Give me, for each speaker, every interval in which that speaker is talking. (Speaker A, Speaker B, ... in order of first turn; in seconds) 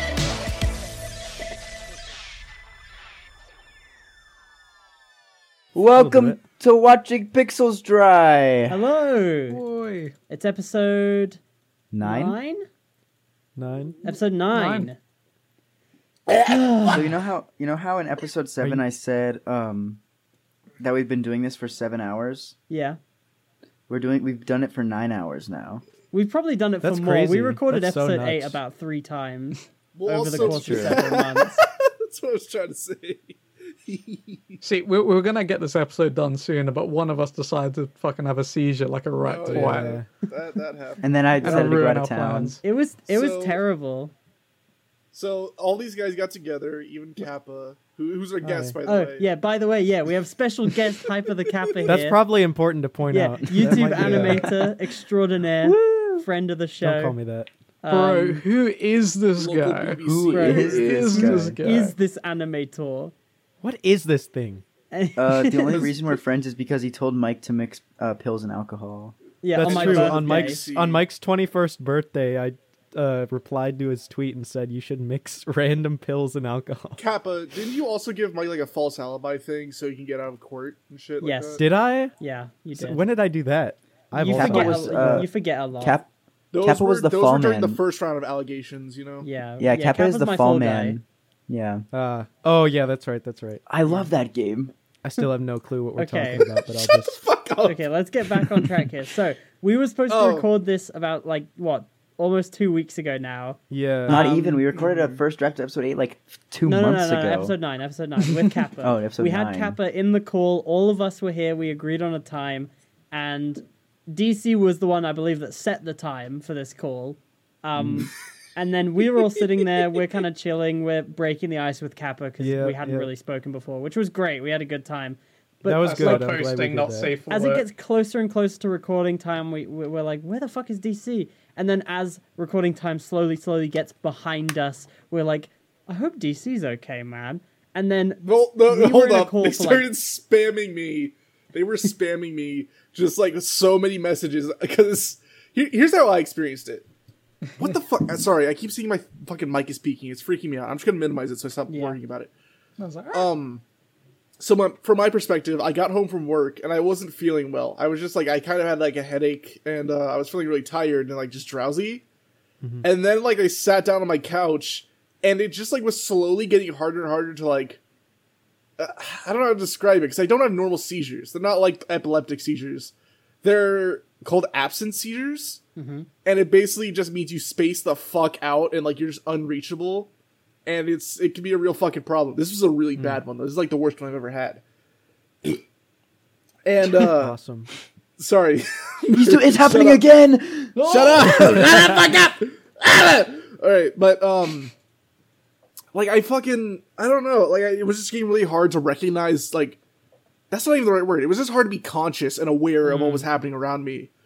Speaker A: 5.7-8.8, 11.9-12.4, 16.8-20.0, 20.8-22.5, 23.9-25.8, 41.0-42.6, 60.0-61.6, 65.2-69.1, 84.2-85.3, 85.8-86.1, 86.6-87.8, 89.6-91.8, 93.7-94.7, 104.0-107.5, 108.8-109.8, 117.7-118.1, 189.1-191.7
Speaker B: 5.9-6.4, 13.6-14.0, 26.8-28.6, 30.3-31.0, 39.5-40.1, 48.4-48.8, 51.9-54.6, 56.8-57.5, 63.6-64.6, 69.5-77.0, 81.6-82.1, 82.7-85.3, 91.9-93.6, 95.0-97.2, 103.7-104.2, 122.4-123.1, 125.6-127.1, 182.9-183.2, 187.0-187.7, 202.8-203.2
Speaker C: 8.7-9.6, 10.3-11.4, 12.0-12.6, 14.0-15.0, 16.4-17.0, 22.7-23.0, 26.1-31.6, 42.6-44.1, 48.8-52.2, 53.1-57.1, 57.8-58.4, 60.3-63.1, 64.9-65.9, 69.4-70.6, 81.2-81.6, 82.2-83.0, 84.1-86.0, 89.2-91.0, 96.0-96.4, 97.6-104.7, 106.6-126.4, 127.3-139.9, 151.7-152.0, 175.8-176.1
Speaker D: 9.5-10.1, 14.0-14.9, 34.6-39.9, 41.4-42.6, 55.6-56.2, 57.9-61.9, 125.8-127.7, 152.8-153.3
Speaker E: 29.9-34.6, 39.2-41.6, 43.1-43.6, 45.1-49.3, 59.4-61.2, 69.6-71.0, 77.0-81.6, 86.5-89.2, 96.7-98.6, 100.1-100.5, 138.2-146.8, 147.6-152.3, 153.1-153.6, 154.4-162.0, 162.8-167.8, 168.8-175.6, 176.2-180.1, 180.7-184.6, 186.6-187.3, 188.2-190.0, 190.8-194.7, 195.9-199.8, 200.5-204.1